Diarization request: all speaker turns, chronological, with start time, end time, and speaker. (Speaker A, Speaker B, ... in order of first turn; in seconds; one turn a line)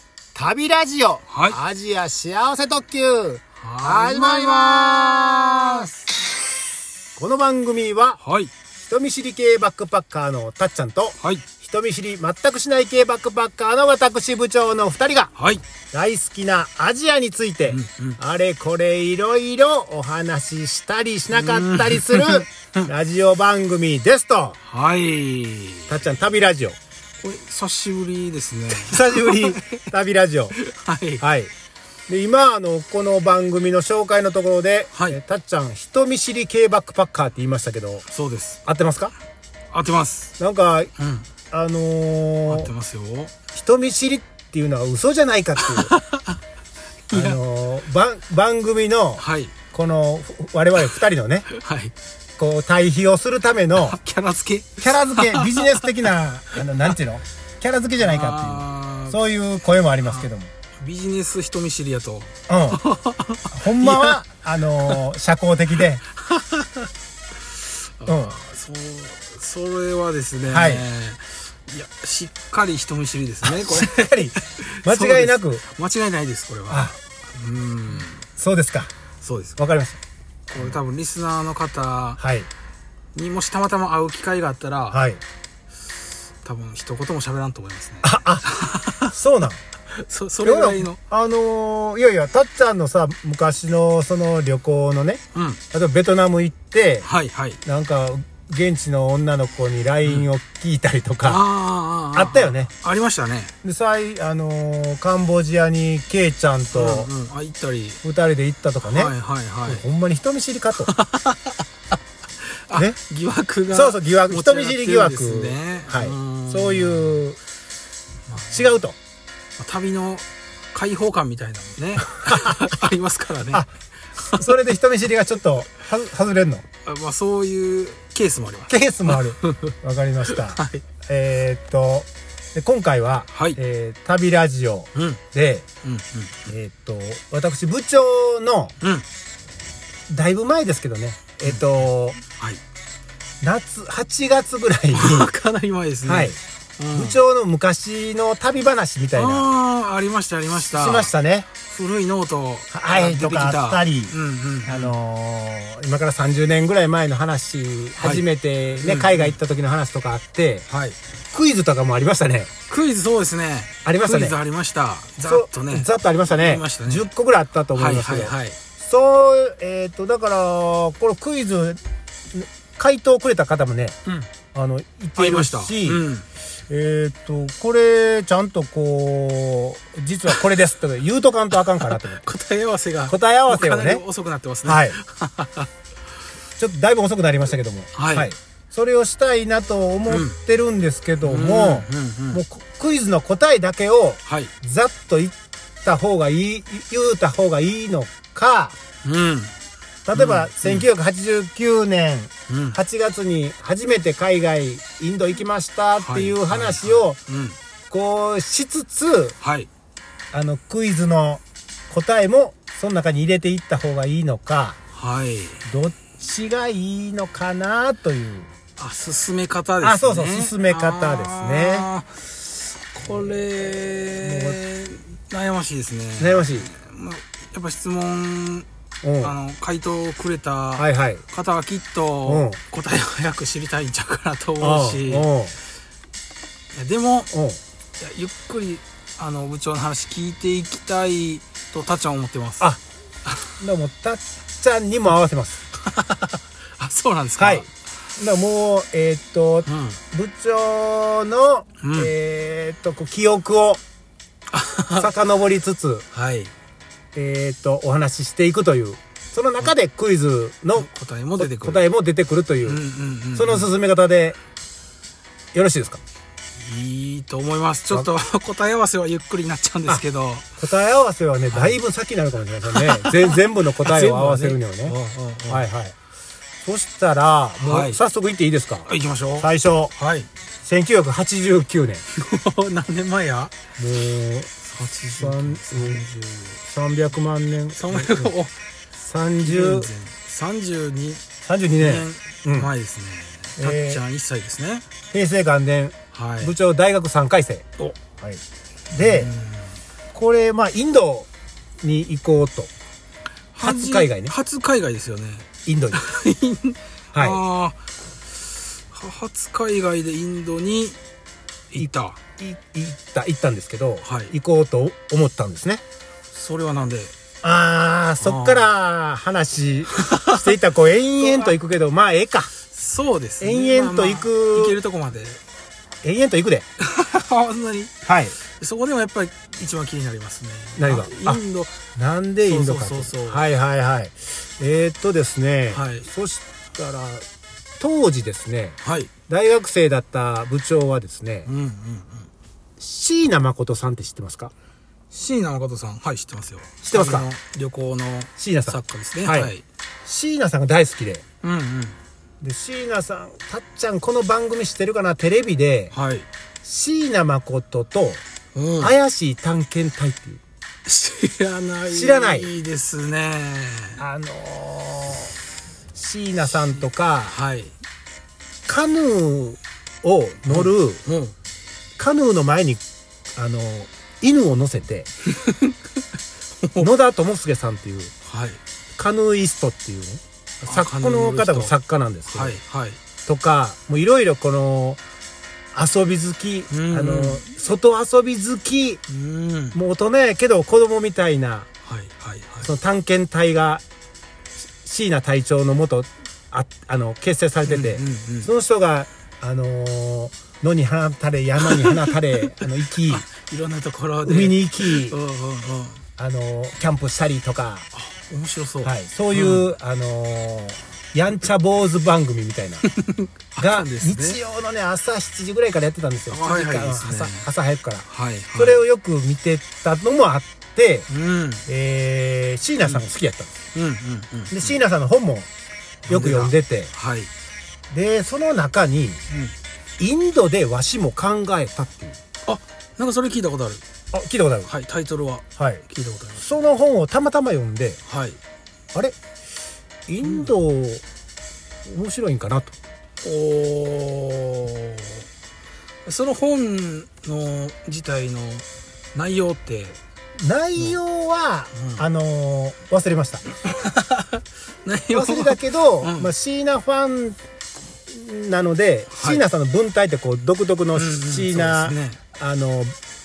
Speaker A: 0.3-5.9
Speaker B: 1.3-1.6
Speaker B: 3.6-5.9
Speaker A: 7.2-8.2
Speaker B: 8.2-8.5
Speaker A: 8.9-15.3
Speaker B: 11.2-11.4
Speaker B: 15.3-15.6
Speaker A: 15.9-24.6
Speaker B: 17.7-18.2
Speaker B: 21.3-22.9
Speaker B: 24.6-26.1
Speaker A: 25.9-26.8
Speaker B: 27.2-29.9
Speaker A: 28.7-30.5
Speaker B: 30.6-31.2
Speaker A: 31.2-31.5
Speaker A: 32.1-38.1
Speaker B: 34.9-35.2
Speaker B: 38.1-38.6
Speaker A: 38.6-39.1
Speaker B: 39.7-40.3
Speaker A: 40.4-40.9
Speaker B: 41.0-41.3
Speaker A: 41.5-42.7
Speaker B: 42.5-43.4
Speaker A: 43.5-45.9
Speaker B: 45.6-46.4
Speaker B: 47.1-47.4
Speaker A: 47.1-51.5
Speaker B: 49.2-49.5
Speaker B: 51.5-51.9
Speaker A: 52.4-54.0
Speaker B: 53.8-56.0
Speaker A: 54.8-60.5
Speaker B: 56.5-56.9
Speaker B: 58.0-59.2
Speaker B: 60.0-60.3
Speaker B: 60.8-64.2
Speaker A: 62.5-62.8
Speaker A: 63.5-66.0
Speaker B: 66.2-66.9
Speaker B: 67.7-78.2
Speaker A: 68.0-68.3
Speaker A: 70.5-70.8
Speaker A: 73.4-75.6
Speaker A: 76.7-77.0
Speaker A: 78.4-78.9
Speaker B: 79.2-79.6
Speaker A: 79.6-80.0
Speaker B: 80.5-82.2
Speaker A: 82.2-82.5
Speaker B: 83.1-85.0
Speaker A: 84.9-85.2
Speaker B: 86.4-89.1
Speaker A: 88.0-88.5
Speaker A: 89.1-89.6
Speaker B: 89.9-91.0
Speaker A: 90.4-97.1
Speaker B: 95.3-95.6
Speaker B: 97.0-97.6
Speaker A: 97.6-101.4
Speaker B: 101.2-103.5
Speaker A: 102.1-102.7
Speaker A: 103.6-107.1
Speaker B: 106.7-108.0
Speaker A: 108.0-109.1
Speaker B: 108.8-109.8
Speaker A: 109.6-110.9
Speaker B: 110.8-111.6
Speaker B: 112.5-117.2
Speaker A: 113.7-117.4
Speaker B: 118.3-118.8
Speaker A: 118.5-119.0
Speaker B: 119.6-123.6
Speaker B: 124.2-124.5
Speaker A: 124.3-126.6
Speaker B: 126.8-130.8
Speaker A: 128.7-135.7
Speaker B: 133.3-133.6
Speaker B: 134.9-135.2
Speaker B: 135.8-136.5
Speaker A: 136.5-138.7
Speaker B: 138.8-139.1
Speaker A: 140.1-142.2
Speaker B: 141.4-142.6
Speaker A: 143.4-145.3
Speaker B: 144.9-147.2
Speaker A: 146.0-146.4
Speaker A: 146.9-149.5
Speaker B: 149.1-151.1
Speaker A: 150.5-151.5
Speaker B: 151.6-154.9
Speaker A: 152.7-154.1
Speaker A: 154.7-160.6
Speaker B: 158.0-158.2
Speaker B: 158.8-159.3
Speaker B: 160.7-161.0
Speaker A: 161.3-162.5
Speaker B: 162.7-167.1
Speaker A: 163.8-164.4
Speaker A: 165.3-171.8
Speaker B: 167.7-168.6
Speaker A: 172.3-174.0
Speaker A: 174.5-176.1
Speaker B: 175.2-176.2
Speaker A: 176.7-182.2
Speaker B: 181.6-185.7
Speaker A: 183.1-184.0
Speaker A: 184.6-185.0
Speaker A: 186.6-198.8
Speaker B: 187.9-188.3
Speaker B: 190.1-190.3
Speaker B: 191.2-192.4
Speaker B: 194.2-194.5
Speaker B: 199.0-199.5
Speaker A: 200.1-207.2
Speaker B: 200.1-200.9
Speaker B: 202.5-202.8
Speaker B: 206.0-207.6
Speaker A: 207.9-209.3
Speaker B: 209.4-209.7
Speaker A: 210.3-214.8
Speaker B: 214.9-215.6
Speaker A: 215.7-218.5
Speaker B: 218.8-228.7
Speaker A: 219.8-221.9
Speaker A: 223.0-223.4
Speaker A: 224.2-224.6
Speaker A: 226.2-226.7
Speaker A: 229.0-229.3
Speaker B: 229.2-235.3
Speaker A: 230.8-231.2
Speaker A: 232.2-232.6
Speaker A: 234.6-235.5
Speaker B: 236.7-237.3
Speaker A: 237.3-237.6
Speaker B: 238.0-242.7
Speaker A: 243.6-245.6
Speaker B: 245.8-247.7
Speaker A: 247.4-253.8
Speaker B: 249.7-250.0
Speaker B: 251.8-252.1
Speaker B: 254.5-255.2
Speaker A: 255.0-256.1
Speaker B: 256.1-256.5
Speaker A: 257.1-262.8
Speaker B: 260.8-261.9
Speaker B: 262.6-263.7
Speaker A: 263.3-264.4
Speaker A: 265.5-266.0
Speaker B: 266.6-270.4
Speaker A: 270.6-274.9
Speaker B: 271.5-271.8
Speaker B: 272.7-275.7
Speaker A: 275.5-275.9
Speaker A: 276.6-279.9
Speaker B: 277.6-278.0
Speaker B: 278.9-280.3
Speaker A: 280.6-282.0
Speaker B: 282.1-283.5
Speaker A: 283.8-284.5
Speaker B: 284.6-286.6
Speaker A: 285.2-286.0
Speaker A: 286.7-288.4
Speaker B: 287.8-288.5
Speaker A: 289.0-289.9
Speaker B: 289.4-291.2
Speaker A: 291.4-292.7
Speaker B: 291.8-294.9
Speaker A: 293.6-294.0
Speaker A: 295.1-298.4
Speaker B: 296.1-296.5
Speaker A: 298.9-299.3
Speaker B: 299.0-299.8
Speaker A: 300.1-301.3
Speaker A: 301.8-302.7
Speaker B: 303.5-307.8
Speaker A: 303.6-304.3
Speaker A: 305.6-306.0
Speaker A: 307.1-307.4
Speaker B: 308.8-311.0
Speaker B: 311.7-312.2
Speaker A: 311.8-315.8
Speaker B: 314.0-314.3
Speaker B: 316.3-317.1
Speaker A: 317.4-322.5
Speaker B: 318.2-318.6
Speaker B: 319.9-320.4
Speaker B: 321.2-321.5
Speaker B: 322.7-325.4
Speaker A: 323.4-324.8
Speaker A: 326.0-326.7
Speaker B: 326.8-331.8
Speaker A: 328.1-328.4
Speaker A: 330.8-331.4
Speaker A: 331.9-337.2
Speaker B: 332.5-333.5
Speaker B: 335.7-336.1
Speaker A: 337.8-338.8
Speaker B: 338.8-339.1
Speaker A: 339.3-341.5
Speaker B: 341.4-342.3
Speaker A: 342.8-344.5
Speaker B: 345.1-349.6
Speaker A: 346.8-347.3
Speaker A: 348.4-349.5
Speaker A: 350.0-351.2
Speaker B: 351.4-352.0
Speaker A: 352.4-355.9
Speaker B: 355.9-356.3
Speaker A: 356.6-358.2
Speaker B: 358.5-358.9
Speaker A: 358.8-360.4
Speaker B: 360.9-364.0
Speaker A: 361.9-362.5
Speaker A: 364.0-365.3
Speaker A: 365.9-367.4
Speaker B: 367.3-367.7
Speaker A: 368.7-371.0
Speaker B: 370.4-371.3
Speaker A: 372.0-372.8
Speaker A: 373.4-375.1
Speaker B: 375.3-375.8
Speaker B: 376.6-376.9
Speaker A: 376.8-378.1
Speaker B: 378.2-378.6
Speaker A: 379.0-382.5
Speaker B: 380.6-381.7
Speaker B: 382.3-383.0
Speaker A: 383.3-385.0
Speaker A: 385.7-389.0
Speaker B: 386.7-387.4
Speaker B: 389.1-389.8
Speaker A: 389.7-391.7
Speaker B: 391.8-392.7
Speaker A: 392.6-393.8
Speaker A: 394.8-403.3
Speaker B: 397.7-398.5
Speaker B: 401.6-406.0
Speaker A: 404.2-405.2
Speaker A: 406.2-407.9
Speaker B: 407.9-409.7
Speaker A: 408.8-412.8
Speaker B: 412.8-414.4
Speaker A: 413.6-421.1
Speaker B: 416.3-417.5
Speaker B: 418.1-418.8
Speaker B: 421.1-421.6
Speaker A: 421.7-423.5
Speaker B: 423.7-424.8
Speaker A: 424.5-425.5
Speaker B: 426.1-427.3
Speaker A: 426.1-426.9
Speaker A: 427.9-429.2
Speaker A: 430.0-432.2
Speaker B: 432.4-433.8
Speaker A: 434.1-434.7
Speaker B: 434.7-436.6
Speaker A: 435.6-435.8
Speaker A: 436.4-438.0
Speaker B: 438.1-438.4
Speaker A: 440.1-441.0
Speaker B: 440.2-440.5
Speaker A: 441.9-442.7
Speaker B: 443.2-445.2
Speaker B: 446.1-450.0
Speaker A: 450.4-453.4
Speaker B: 451.7-452.0
Speaker B: 453.6-456.3
Speaker A: 455.1-457.4
Speaker A: 458.1-462.9
Speaker B: 459.1-459.4
Speaker B: 460.9-462.2